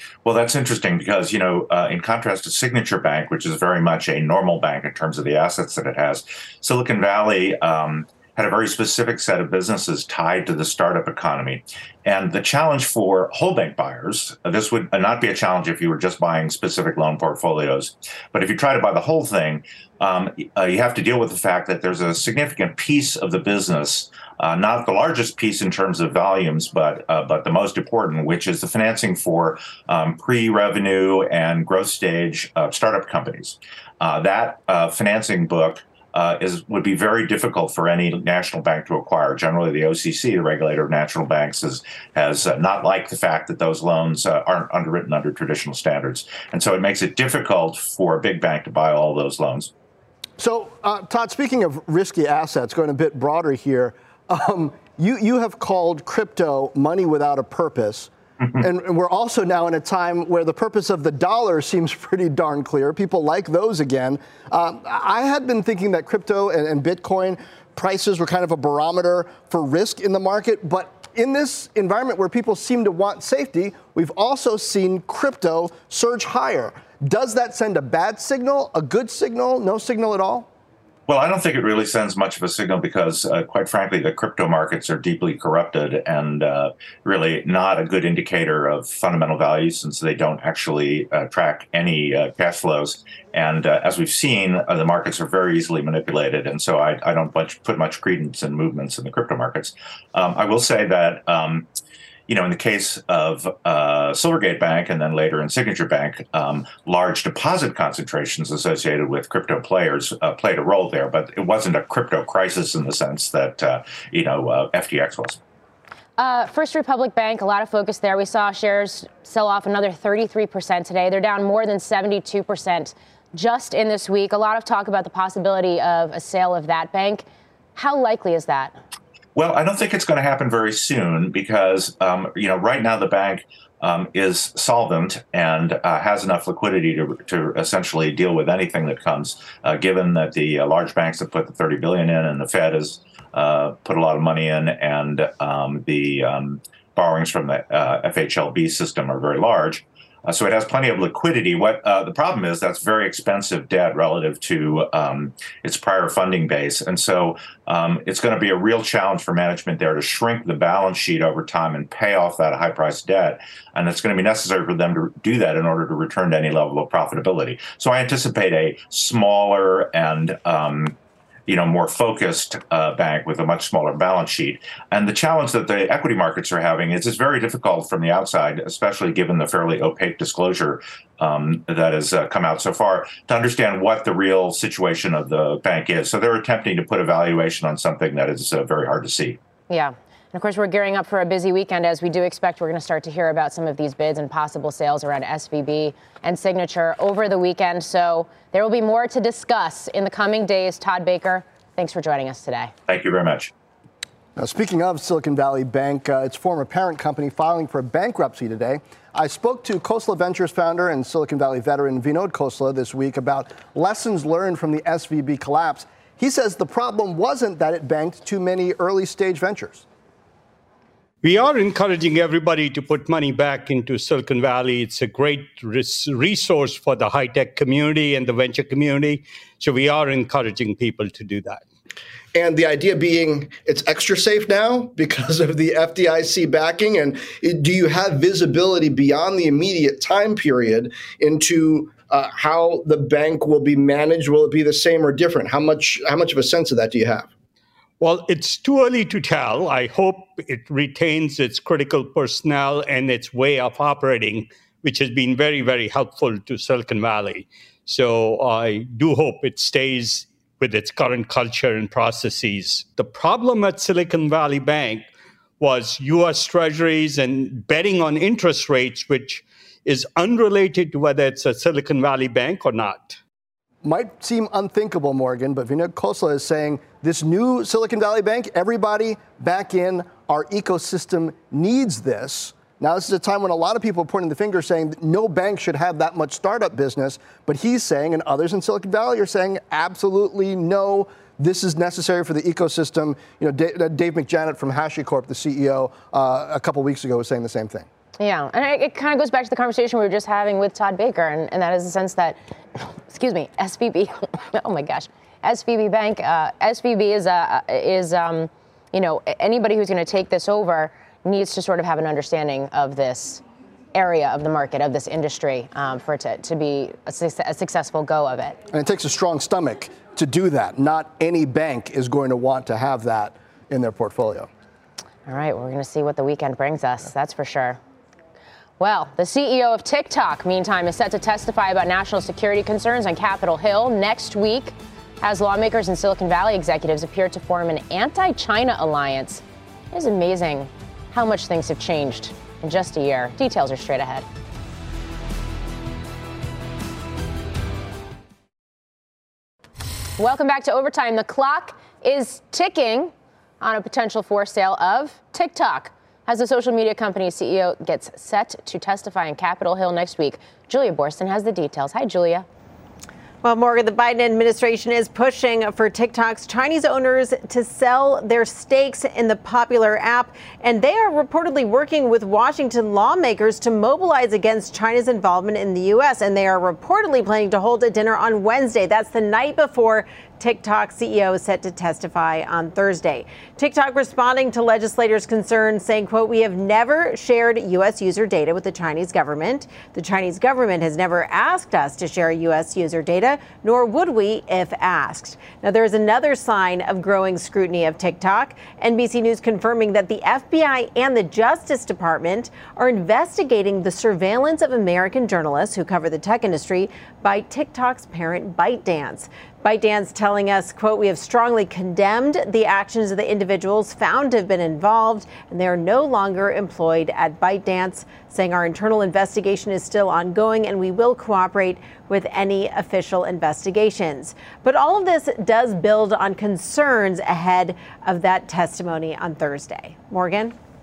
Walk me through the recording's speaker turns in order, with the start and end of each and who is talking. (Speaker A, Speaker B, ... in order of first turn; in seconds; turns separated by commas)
Speaker A: 0.2-49.7, Speaker B: 50.4-80.5, Speaker A: 81.1-101.7, Speaker A: 102.3-115.4, Speaker C: 116.2-127.2, Speaker C: 127.8-128.8, Speaker A: 129.4-171.0, Speaker A: 171.5-189.4, Speaker C: 189.7-202.7, Speaker A: 202.9-203.5, Speaker B: 204.4-219.8, Speaker D: 221.2-231.6, Speaker B: 232.3-247.3, Speaker D: 248.0-265.1, Speaker D: 265.6-273.2, Speaker B: 273.8-297.9, Speaker C: 298.2-313.4, Speaker C: 313.9-318.6, Speaker B: 318.7-324.5, Speaker C: 325.3-327.8, Speaker C: 328.8-344.3, Speaker C: 350.2-362.5, Speaker E: 363.4-430.6